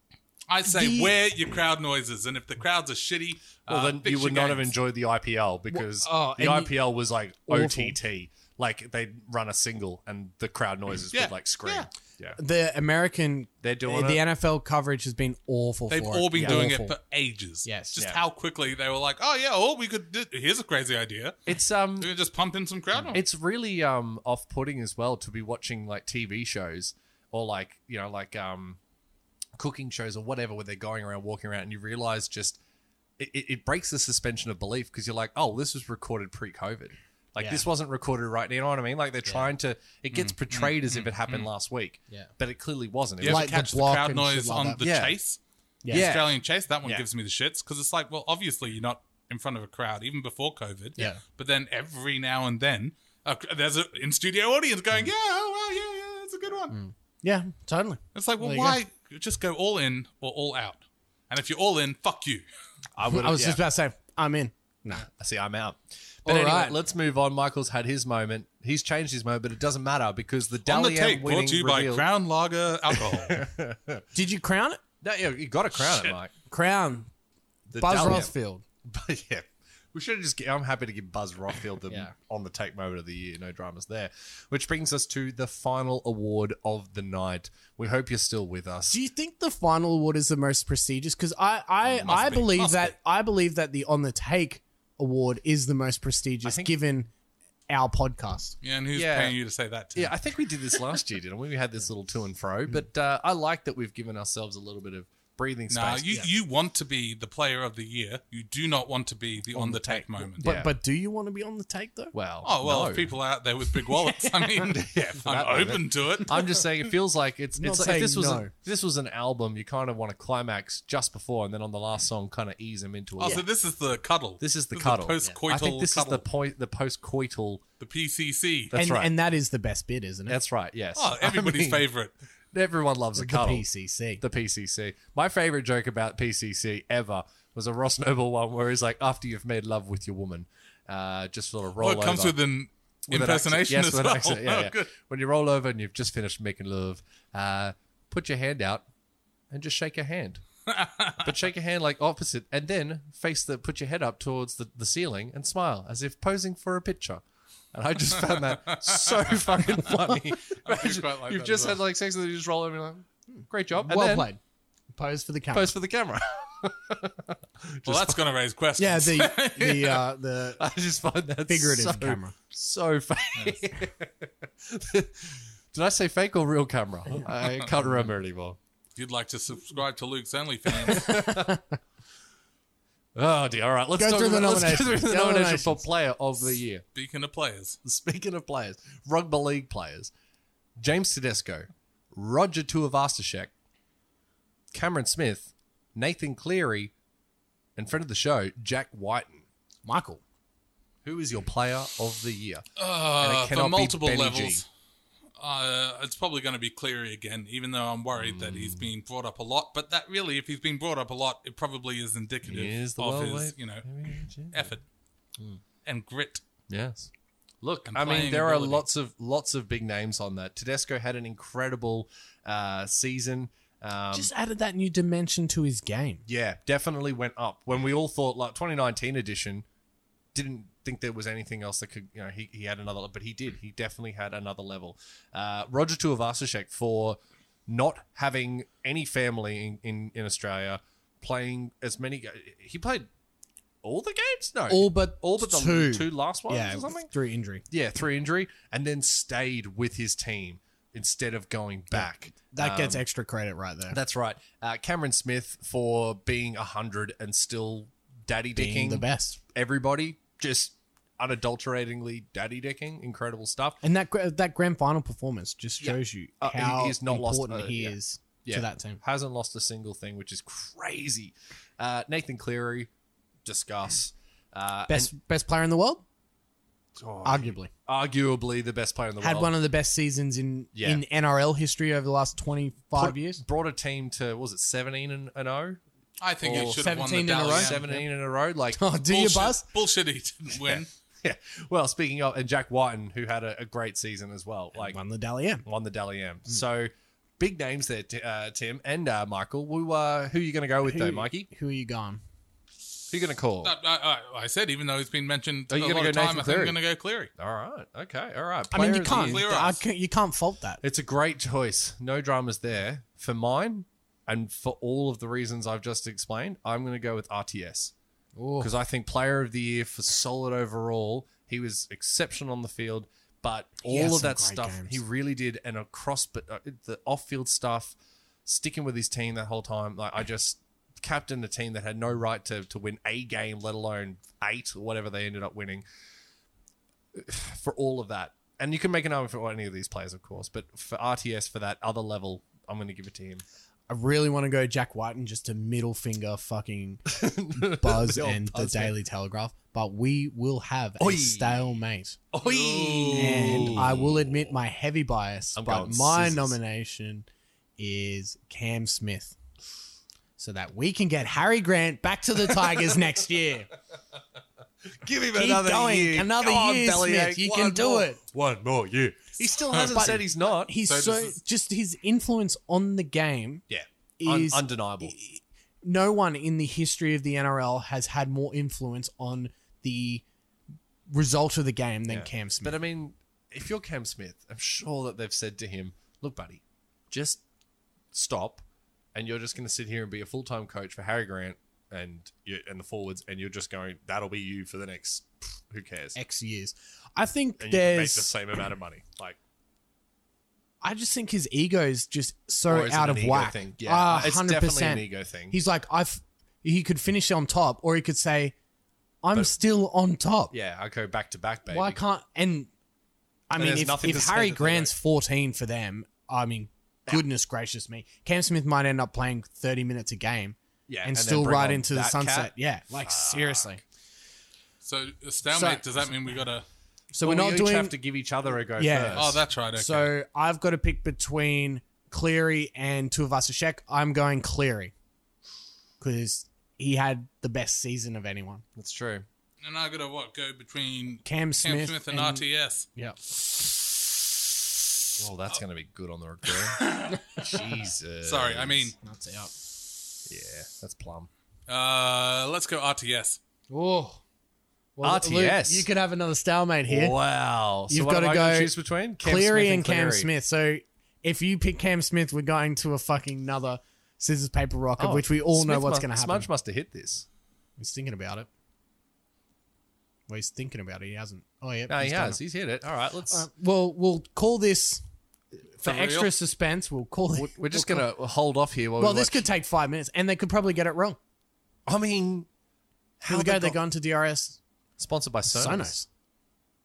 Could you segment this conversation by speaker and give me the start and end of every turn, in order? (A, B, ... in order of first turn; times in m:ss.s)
0:00.5-0:04.7 A
0:00.6-0:01.2 B
0:03.7-0:12.4 C
0:05.7-0:06.8 B
0:07.5-0:08.0 B
0:11.1-0:11.9 A
0:12.4-0:17.0 B
0:13.6-0:14.2 C
0:15.9-0:21.4 A
0:16.4-0:16.6 C
0:17.6-0:18.0 B
0:21.5-0:22.1 C
0:22.0-0:23.2 A
0:23.0-0:28.8 C
0:29.6-0:32.6 C
0:33.2-0:43.5 C
0:37.4-0:37.6 B
0:40.1-0:41.5 A
0:43.2-0:56.8 A
0:43.2-0:44.8 B
0:44.8-0:45.2 C
0:45.8-0:46.1 B
0:45.9-0:47.0 C
0:56.7-0:58.8 B
0:58.2-1:02.4 A
1:03.0-1:03.6 C
1:03.1-1:05.1 B
1:05.0-1:12.1 C
1:06.2-1:06.8 B
1:10.7-1:13.4 A
1:12.9-1:14.1 C
1:14.1-1:14.8 B
1:15.0-1:16.3 C
1:15.9-1:16.2 A
1:16.5-1:17.1 B
1:17.7-1:18.6 B
1:17.7-1:18.3 C
1:18.8-1:29.0 C
1:28.9-1:37.1 B
1:31.8-1:32.5 C
1:32.0-1:32.9 A
1:36.4-1:36.7 C
1:37.7-1:38.6 B
1:38.6-1:40.2 A
1:38.9-1:39.4 C
1:40.0-1:46.3 C
1:45.7-1:50.4 A
1:49.5-1:52.1 B
1:50.4-1:50.7 C
1:52.1-1:53.2 C
1:52.4-1:56.7 A
1:54.2-2:03.4 C
1:57.6-1:58.5 B
2:03.2-2:06.2 A
2:04.4-2:07.6 C
2:07.8-2:08.7 A
2:08.7-2:09.1 C
2:08.7-2:10.4 B
2:10.3-2:11.9 C
2:11.0-2:12.1 A
2:12.5-2:13.7 C
2:13.2-2:14.2 B
2:14.2-2:22.4 C
2:21.8-2:24.9 A
2:23.1-2:28.9 C
2:29.5-2:30.4 C
2:30.7-2:31.3 A
2:31.2-2:44.3 C
2:38.3-2:39.6 A
2:40.6-2:41.8 A
2:43.3-2:44.4 B
2:45.0-2:45.7 B
2:45.5-2:48.2 C
2:47.8-2:50.0 A
2:48.8-2:50.6 B
2:50.6-2:58.6 C
2:51.5-2:52.3 B
2:53.4-2:53.6 A
2:57.4-2:57.7 A
2:59.0-3:01.3 A
3:00.7-3:01.6 C
3:01.1-3:01.6 B
3:03.2-3:06.8 C
3:04.0-3:05.8 B
3:07.0-3:07.8 A
3:07.8-3:10.1 C
3:10.8-3:13.5 C
3:14.7-3:16.9 C
3:17.8-3:19.4 C
3:19.8-3:20.2 B
3:21.0-3:24.6 C
3:22.8-3:24.7 A
3:25.4-3:33.9 A
3:28.2-3:28.9 C
3:32.5-3:34.8 C
3:34.5-3:34.8 A
3:35.8-3:36.4 A
3:36.7-3:37.1 C
3:37.6-3:44.3 C
3:37.9-3:38.8 A
3:44.1-3:46.2 B
3:46.3-3:49.7 C
3:50.3-4:03.1 C
4:03.8-4:07.1 C
4:04.7-4:07.6 B
4:07.7-4:13.0 C
4:11.9-4:14.0 B
4:13.9-4:23.8 C
4:18.6-4:19.4 B
4:23.8-4:29.0 B
4:25.8-4:32.9 C
4:33.4-4:35.1 C
4:34.9-4:36.0 B
4:37.0-4:39.5 C
4:37.2-4:37.7 B
4:39.2-4:43.4 B
4:40.7-4:41.0 C
4:43.0-4:45.8 C
4:46.2-4:47.8 A
4:46.4-4:48.8 C
4:46.5-4:48.0 B
4:48.8-4:49.7 B
4:49.1-4:50.9 A
4:50.5-4:55.0 C
4:54.9-4:55.6 B
4:55.6-5:01.5 C
5:00.8-5:02.2 B
5:03.1-5:03.7 C
5:03.6-5:07.3 A
5:05.7-5:06.8 C
5:07.4-5:09.5 C
5:08.7-5:10.8 B
5:09.0-5:09.8 A
5:10.8-5:17.9 C
5:18.4-5:18.7 B
5:18.6-5:35.8 C
5:23.8-5:25.0 B
5:37.1-5:43.4 C
5:43.9-5:52.2 B
5:47.1-5:48.9 C
5:51.0-5:51.7 C
5:52.3-5:54.5 C
5:52.4-5:53.9 A
5:53.2-5:57.3 B
5:55.6-5:56.6 C
5:57.8-5:59.4 B
6:00.4-6:03.7 B
6:02.5-6:03.0 C
6:04.9-6:10.8 C
6:05.4-6:08.2 B
6:09.7-6:10.0 A
6:09.9-6:13.6 B
6:10.9-6:11.4 A
6:13.7-6:15.2 C
6:14.2-6:20.2 B
6:21.1-6:22.8 B
6:22.1-6:27.4 C
6:28.1-6:28.6 C
6:29.2-6:36.2 C
6:36.2-6:38.4 B
6:37.6-6:39.4 C
6:40.8-6:48.6 B
6:42.7-6:45.6 C
6:49.2-6:50.5 B
6:50.5-6:52.0 C
6:51.7-6:52.7 B
6:53.5-7:03.8 B
6:53.6-6:54.9 C
7:00.9-7:02.5 C
7:03.0-7:03.8 C
7:04.8-7:06.6 A
7:05.5-7:05.9 B
7:07.1-7:08.0 B
7:07.2-7:09.4 C
7:08.8-7:14.9 B
7:09.1-7:10.1 A
7:16.0-7:18.6 B
7:18.8-7:19.3 C
7:19.6-7:22.9 A
7:21.2-7:23.2 B
7:25.2-7:28.9 C
7:26.6-7:27.3 A
7:27.1-7:27.6 B
7:28.2-7:29.0 A
7:29.0-7:29.5 B
7:30.3-7:31.3 C
7:31.7-7:33.4 A
7:33.7-7:34.2 B
7:35.0-7:37.2 B
7:35.0-7:35.9 C
7:36.9-7:40.3 C
7:37.9-7:46.5 B
7:45.0-7:47.3 C
7:47.8-7:48.5 B
7:50.3-7:52.4 B
7:51.9-7:53.5 C
7:53.3-7:55.0 B
7:55.8-7:58.1 B
7:55.8-7:56.3 A
7:57.4-7:59.5 C
7:59.0-8:01.2 B
8:01.9-8:02.5 C
8:03.2-8:03.8 C
8:03.3-8:04.6 B
8:05.0-8:06.0 C
8:05.5-8:06.1 B